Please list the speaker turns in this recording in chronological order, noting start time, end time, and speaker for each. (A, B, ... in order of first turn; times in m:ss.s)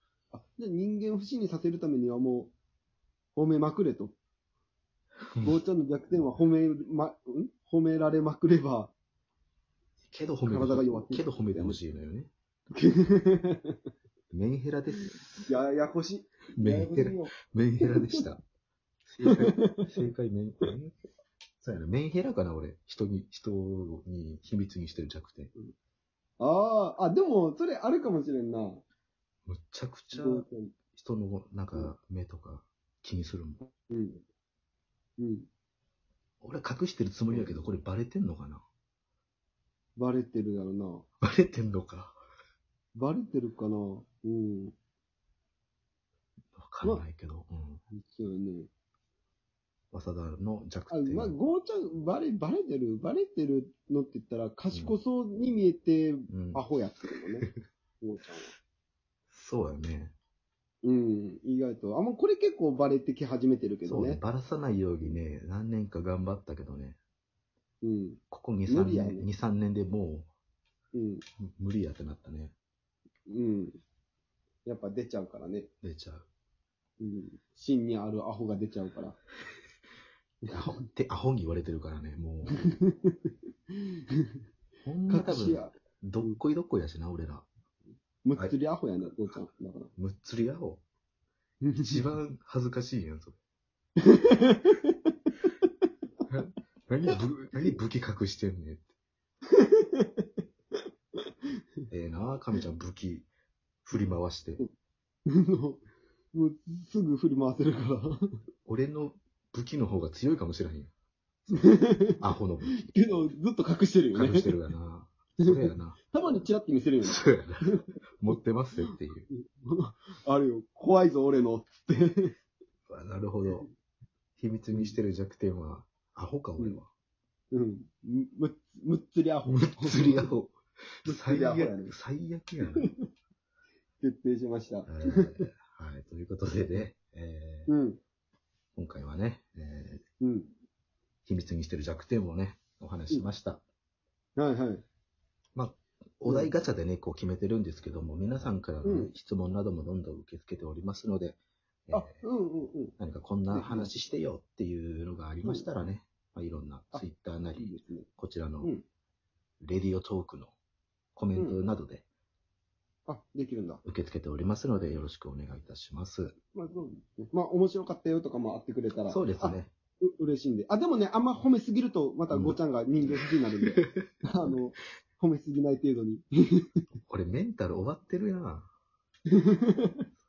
0:00.3-0:02.5 A
0:03.3-0:04.2 A
0:05.4-0:08.9 A
0:10.0-0:12.3 B
0:10.4-0:11.8 A
0:12.7-0:13.8 A
0:14.3-0:15.5 B
0:15.4-0:18.2 A
0:16.5-0:18.4 B
0:19.1-0:21.0 B
0:19.2-0:19.9 A
0:21.6-0:25.5 B
0:26.4-0:28.8 A
0:29.4-0:33.6 B
0:30.1-0:30.7 A
0:33.9-0:34.2 A
0:35.2-0:35.5 A
0:36.4-0:38.6 B
0:37.3-0:37.6 A
0:40.0-0:41.0 A
0:41.2-0:42.2 B
0:42.9-0:44.7 A
0:46.5-0:47.8 B
0:47.9-0:48.7 A
0:49.9-0:51.3 B
0:50.9-0:57.5 A
0:56.3-0:56.6 B
0:58.0-0:58.5 A
0:59.3-1:00.1 B
1:00.8-1:04.2 A
1:03.8-1:07.0 B
1:07.8-1:09.3 A
1:08.3-1:10.3 B
1:10.9-1:11.2 A
1:11.4-1:12.5 B
1:13.3-1:13.8 A
1:14.6-1:15.7 A
1:15.8-1:16.2 B
1:17.0-1:19.2 A
1:20.4-1:20.8 A
1:20.5-1:22.6 B
1:22.5-1:24.2 A
1:24.8-1:27.5 B
1:25.1-1:26.4 A
1:28.2-1:29.9 A
1:30.0-1:30.8 B
1:31.6-1:32.0 A
1:31.7-1:33.4 B
1:34.0-1:34.9 A
1:36.3-1:38.9 B
1:39.5-1:40.2 A
1:41.9-1:43.3 B
1:43.8-1:44.6 B
1:45.3-1:45.8 A
1:46.3-1:48.4 A
1:48.6-1:50.9 B
1:51.5-1:52.7 B
1:51.5-1:52.2 A
1:52.8-1:54.5 A
1:54.1-1:56.0 B
1:55.4-1:57.8 A
1:57.0-1:59.3 B
1:59.3-2:02.3 A
2:02.9-2:03.7 B
2:04.4-2:06.9 B
2:07.5-2:10.3 A
2:09.4-2:12.9 B
2:11.0-2:11.9 A
2:14.0-2:15.5 A
2:14.8-2:17.7 B
2:17.7-2:18.0 A
2:18.8-2:20.0 B
2:20.2-2:20.5 A
2:21.2-2:23.6 B
2:24.4-2:24.8 A
2:25.5-2:32.2 B
2:26.2-2:26.5 A
2:28.8-2:29.1 A
2:31.9-2:33.0 A
2:33.0-2:38.7 B
2:33.5-2:33.9 A
2:35.4-2:35.7 A
2:36.9-2:38.1 A
2:39.6-2:40.5 B
2:41.2-2:42.0 B
2:43.1-2:43.8 A
2:43.8-2:46.3 B
2:46.5-2:56.6 A
2:49.1-2:49.7 B
2:52.3-2:53.1 B
2:53.7-2:54.1 B
2:57.1-2:58.7 B
2:59.4-3:00.0 A